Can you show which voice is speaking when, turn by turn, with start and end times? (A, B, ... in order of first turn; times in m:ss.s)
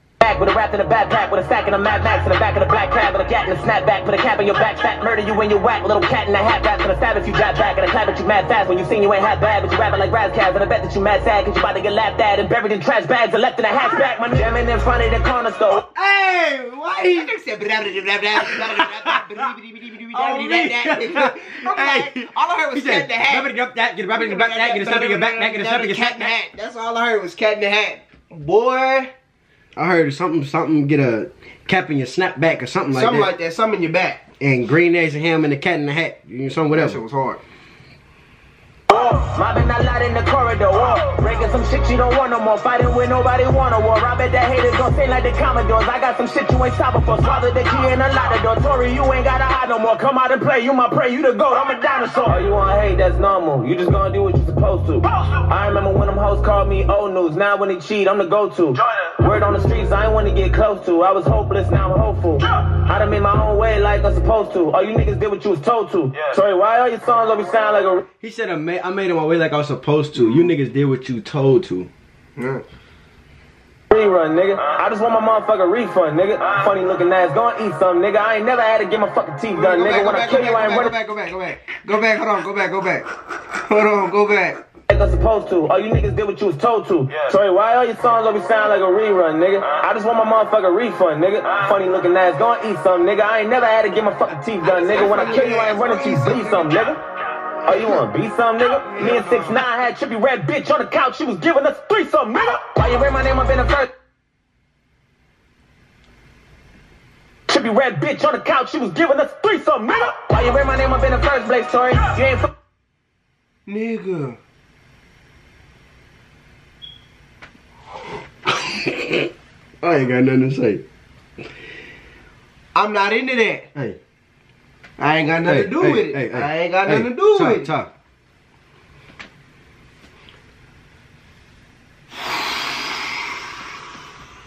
0:00.2-0:15.8 A
0:15.7-0:17.3 B
0:16.9-0:23.5 C
0:18.3-0:19.5 B
0:20.1-0:26.3 B
0:24.2-0:29.1 C
0:29.8-0:33.3 B
0:32.9-0:34.2 C
0:34.4-0:37.0 B
0:36.7-0:37.4 C
0:38.9-1:08.0 A
1:08.2-1:11.9 B
1:10.2-1:10.5 C
1:12.4-1:12.6 C
1:13.9-1:20.9 A
1:19.5-1:24.6 C
1:24.9-1:37.0 A
1:34.6-1:36.9 C
1:37.7-1:43.9 A
1:38.9-1:39.6 C
1:47.5-1:52.5 A
1:53.7-1:54.4 C
1:58.5-1:59.3 B
1:59.8-2:00.8 B
2:02.8-2:03.7 C
2:05.0-2:07.7 C
2:05.4-2:07.9 B